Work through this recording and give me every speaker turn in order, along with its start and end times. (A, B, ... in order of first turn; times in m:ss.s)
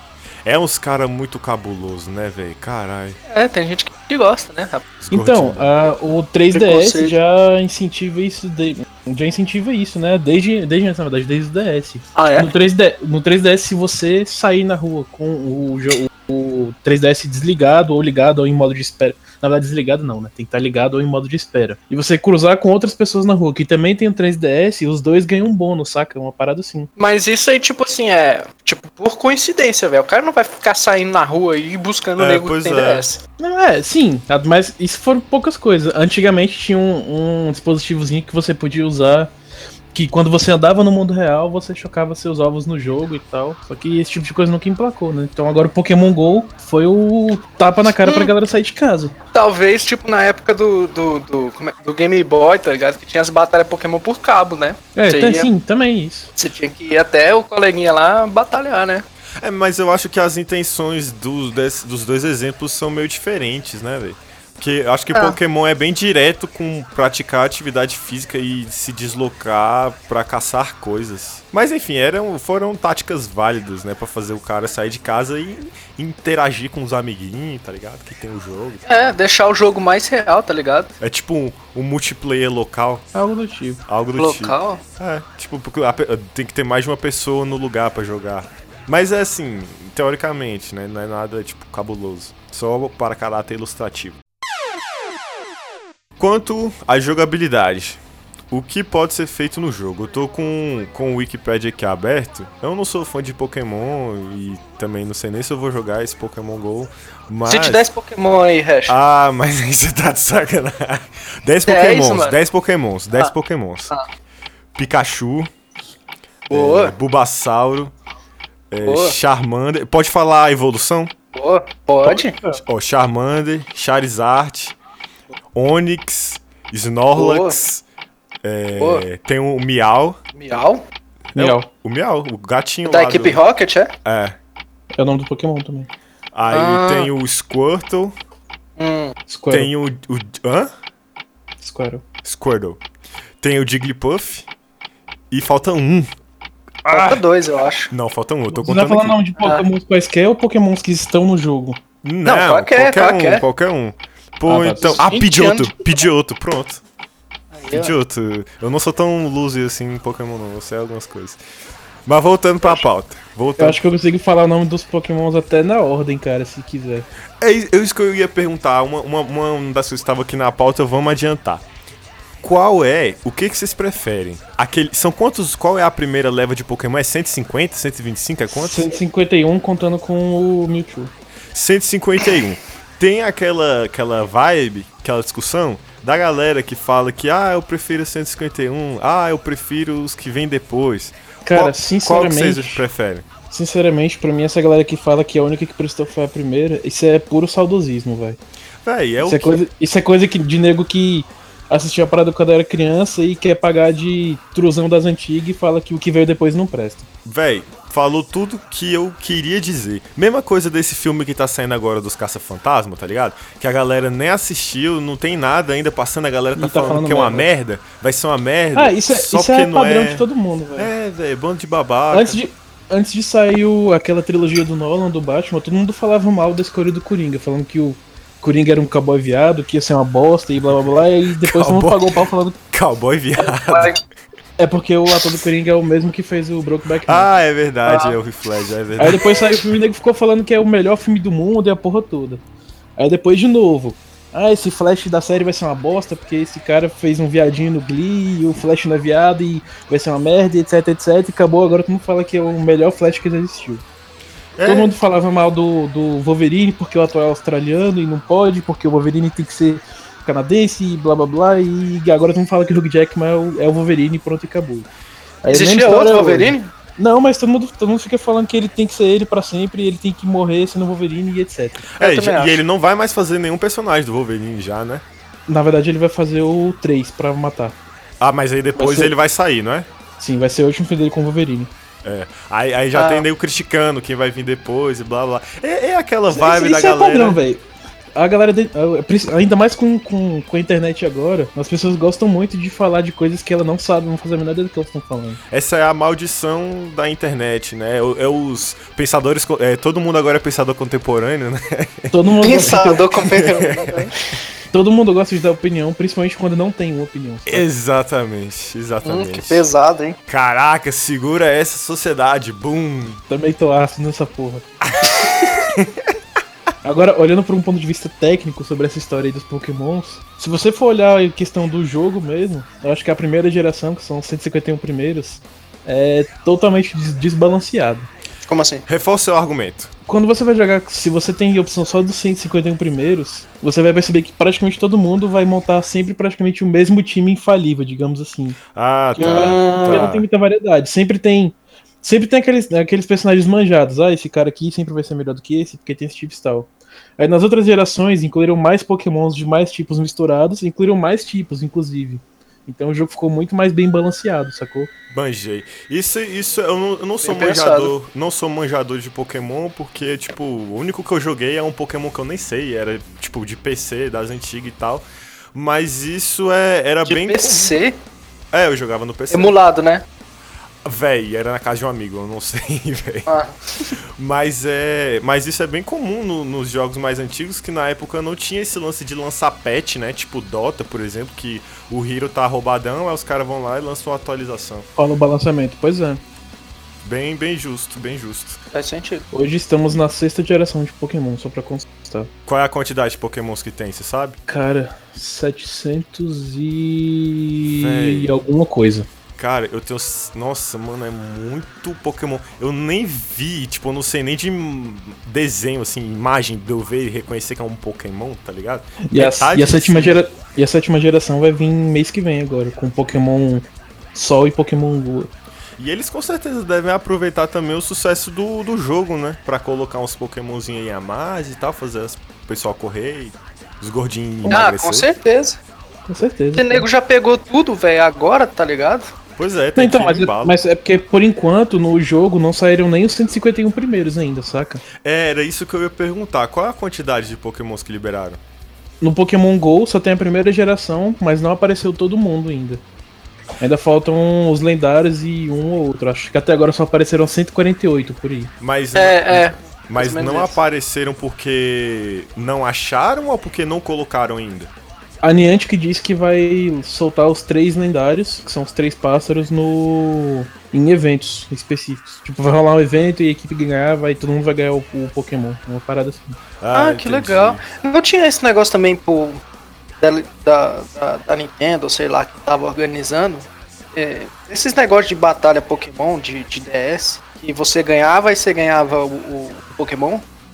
0:00.4-0:03.2 A
0:03.3-0:04.9 B
0:05.0-0:05.7 A
0:05.1-0:26.9 C
0:06.5-0:07.1 B
0:12.1-0:12.5 B
0:27.0-0:33.2 B
0:32.2-0:33.0 A
0:33.4-0:39.3 C
0:39.9-0:49.1 C
0:48.0-0:48.3 B
0:49.3-0:55.5 B
0:54.9-0:56.3 C
0:56.4-0:59.0 B
0:59.4-1:18.8 A
1:18.8-1:20.9 B
1:21.0-1:23.0 A
1:23.1-1:23.8 C
1:23.9-1:34.2 A
1:24.2-1:24.8 B
1:36.2-1:47.8 A
1:47.4-1:49.0 B
1:48.9-1:53.9 A
1:51.7-1:52.4 B
1:54.7-1:55.5 A
1:56.5-1:56.9 B
1:56.5-1:57.9 A
1:58.7-2:01.1 A
1:58.8-1:59.2 B
2:01.3-2:02.3 B
2:02.0-2:02.6 C
2:02.6-2:04.8 A
2:05.5-2:07.8 A
2:07.1-2:07.6 B
2:08.4-2:10.2 A
2:08.8-2:09.0 B
2:10.4-2:10.8 B
2:11.3-2:11.7 C
2:11.3-2:13.4 A
2:12.8-2:13.9 B
2:14.0-2:14.4 A
2:15.0-2:15.9 C
2:16.3-2:18.1 A
2:16.5-2:17.1 B
2:18.8-2:19.2 B
2:19.3-2:19.7 C
2:19.5-2:20.7 A
2:21.6-2:22.0 C
2:22.2-2:22.8 A
2:23.4-2:24.5 A
2:25.3-2:26.1 A
2:26.9-2:27.2 A
2:26.9-2:27.9 B
2:27.9-2:29.2 A
2:28.5-2:31.8 C
2:29.4-2:29.6 B
2:32.0-2:36.8 A
2:32.2-2:33.4 B
2:34.5-2:35.0 C
2:34.8-2:36.0 B
2:37.5-2:37.9 B
2:37.7-2:41.4 A
2:42.0-2:43.8 A
2:43.6-2:47.1 C
2:47.4-2:51.6 A
2:52.4-2:58.9 A
2:58.5-3:01.1 C
3:01.5-3:13.2 A
3:11.4-3:12.8 C
3:13.5-3:18.4 C
3:18.8-3:19.6 A
3:19.2-3:27.1 C
3:27.2-3:40.2 A
3:36.5-3:37.5 C
3:38.7-3:40.9 C
3:40.8-3:42.4 A
3:42.1-3:52.6 C
3:51.4-3:52.1 A
3:52.7-3:53.9 A
3:53.4-3:54.0 B
3:54.6-3:57.3 C
3:57.1-3:59.4 A
3:59.0-4:02.4 C
4:03.0-4:13.8 C
4:14.6-4:15.0 A
4:14.6-4:24.9 C
4:25.4-4:31.8 C
4:25.5-4:26.7 B
4:32.0-4:35.0 A
4:32.0-4:32.6 B
4:35.5-4:37.8 C
4:38.2-4:39.9 A
4:38.8-4:39.1 C
4:40.2-4:41.7 C
4:42.0-4:47.4 A
4:42.9-4:43.2 B
4:46.3-4:47.6 C
4:48.1-4:55.4 C
4:55.5-5:04.1 A
5:02.1-5:03.1 C
5:02.4-5:04.1 B
5:04.7-5:07.6 C
5:07.4-5:09.6 A
5:09.0-5:10.2 B
5:10.3-5:13.2 A
5:13.3-5:14.6 C
5:15.0-5:16.1 A
5:16.8-5:28.1 C
5:28.5-5:28.8 B
5:28.9-5:29.9 A
5:30.1-5:38.6 C
5:38.7-5:40.2 A
5:39.1-5:54.9 C
5:39.2-5:40.1 B
5:55.1-6:07.8 A
5:57.2-5:57.9 B
6:07.0-6:08.0 B
6:08.5-6:09.5 A
6:09.3-6:10.0 B
6:10.8-6:13.3 A
6:13.3-6:13.9 B
6:14.2-6:24.9 A
6:25.0-6:26.2 C
6:27.0-6:28.6 A
6:28.7-6:29.2 B
6:29.3-6:32.3 C
6:32.4-6:34.4 A
6:34.5-6:39.1 C
6:37.6-6:38.4 A
6:39.4-6:50.2 A
6:49.1-6:55.3 C
6:55.8-7:05.1 A
7:04.5-7:05.6 B
7:06.1-7:06.9 C
7:06.6-7:09.1 B
7:09.4-7:10.6 A
7:09.8-7:14.8 C
7:15.0-7:18.4 A
7:19.0-7:22.8 C
7:23.6-7:28.5 C
7:28.6-7:34.7 A
7:28.9-7:30.6 B
7:35.2-7:46.4 C
7:46.6-7:47.6 A
7:46.7-7:49.4 B
7:50.0-8:00.2 B